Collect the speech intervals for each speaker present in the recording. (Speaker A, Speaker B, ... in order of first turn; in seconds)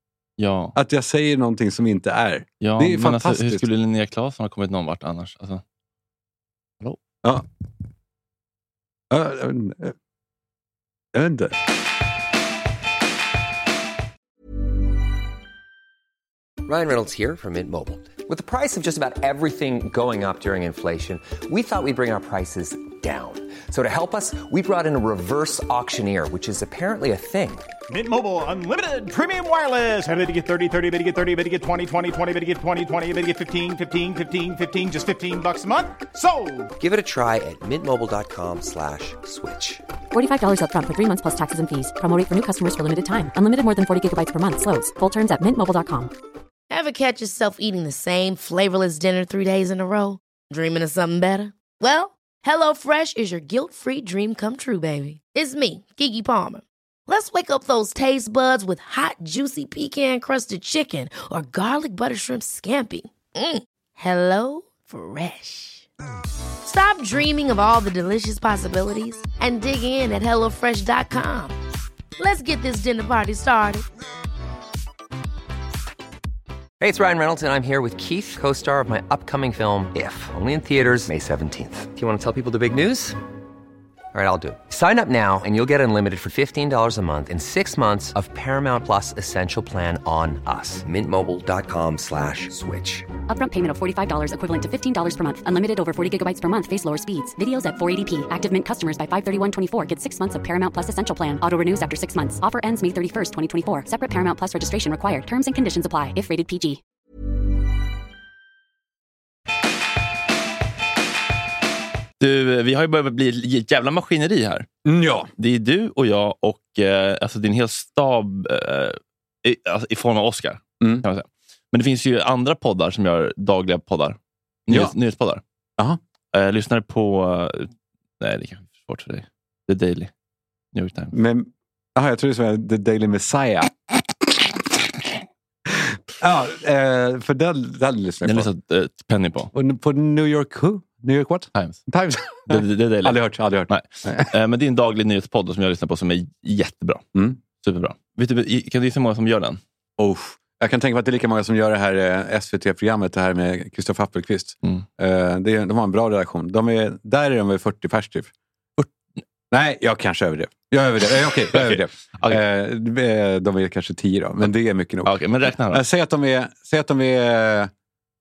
Speaker A: 0.4-0.7, 2.6-5.6, 112.2-114.7, 115.4-125.4, 126.3-127.7, 128.2-130.1, 130.7-131.1, 138.2-139.5, 142.5-147.0, 147.6-149.6, 161.5-162.4, 165.0-165.8
Speaker B: 0.7-3.6, 9.1-9.9, 11.1-11.6, 114.8-115.3, 131.1-133.7, 135.7-138.5, 139.5-144.3, 147.1-147.4, 150.0-158.3, 159.5-167.7
Speaker C: 16.6-27.7, 36.8-39.8, 76.8-83.2, 84.1-93.1
Speaker D: 27.9-36.7
Speaker E: 40.1-46.1, 93.3-106.8
Speaker F: 46.7-65.9, 66.6-71.5, 72.2-73.8